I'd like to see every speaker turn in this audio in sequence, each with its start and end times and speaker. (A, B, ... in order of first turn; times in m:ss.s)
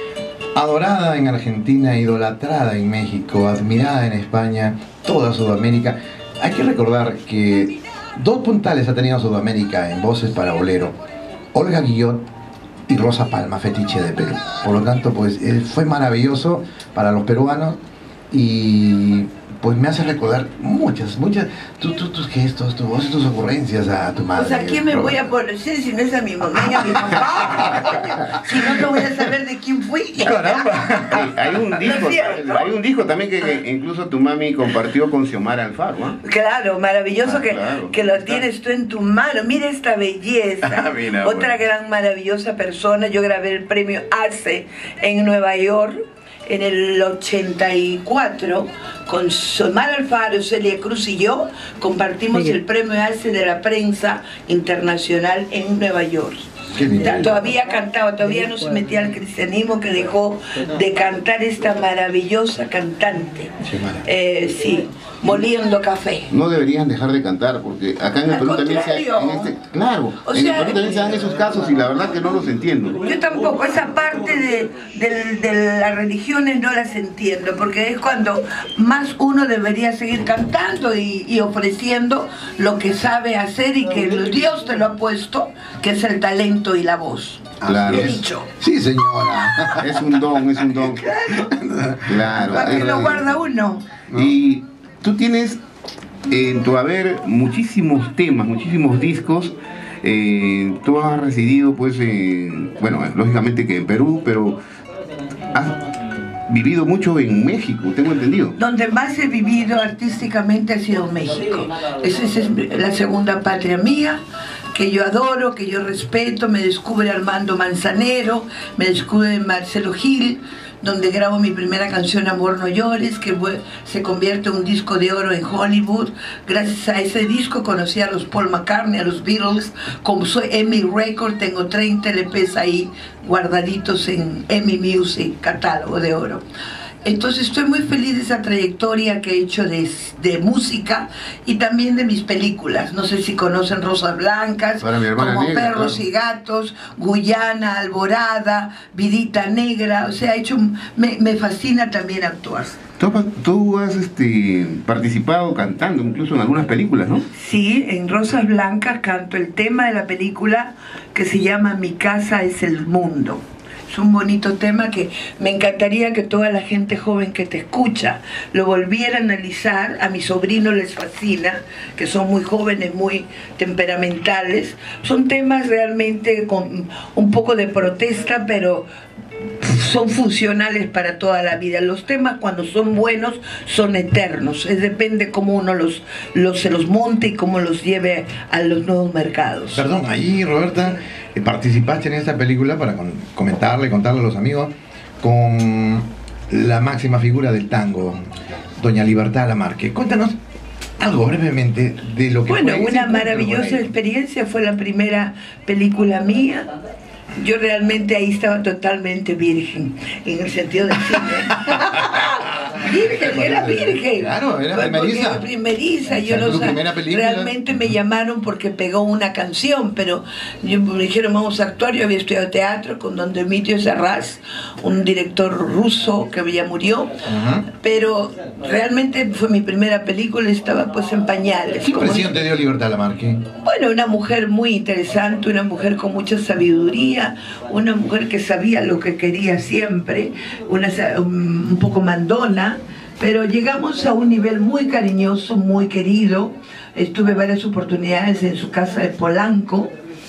0:00.6-0:11.0 A
0:11.5-0:12.2 A
0:12.9-0:17.8 A
0:18.3-0:25.2 A
0:24.3-0:30.6 B
0:27.1-0:27.8 A
0:30.2-0:31.3 A
0:30.3-0:36.2 C
0:31.8-0:32.7 B
0:36.2-1:06.3 B
0:37.2-0:38.1 C
0:40.7-0:41.6 A
0:56.7-0:57.5 A
1:03.6-1:04.0 A
1:06.3-1:13.0 C
1:08.2-1:09.6 B
1:10.2-1:11.0 B
1:13.0-1:28.5 B
1:27.6-1:30.0 A
1:27.6-1:28.2 C
1:29.8-1:31.1 C
1:30.8-1:31.5 B
1:31.3-1:32.7 A
1:32.1-1:33.2 C
1:32.4-1:34.0 B
1:34.1-1:34.3 A
1:34.1-1:35.6 C
1:36.3-1:44.6 C
1:45.5-1:45.8 C
1:46.5-1:48.6 C
1:48.6-1:54.2 B
1:54.7-2:16.4 B
2:17.0-2:32.8 B
2:24.8-2:26.0 C
2:33.0-2:37.2 C
2:37.3-2:58.8 B
2:59.6-3:09.8 B
3:09.7-3:20.4 A
3:21.0-3:23.9 A
3:22.4-3:26.7 B
3:27.3-3:47.2 B
3:31.6-3:35.5 A
3:36.0-3:37.8 A
3:47.2-3:47.7 A
3:47.7-3:52.4 B
3:51.8-3:53.4 A
3:53.6-4:09.9 B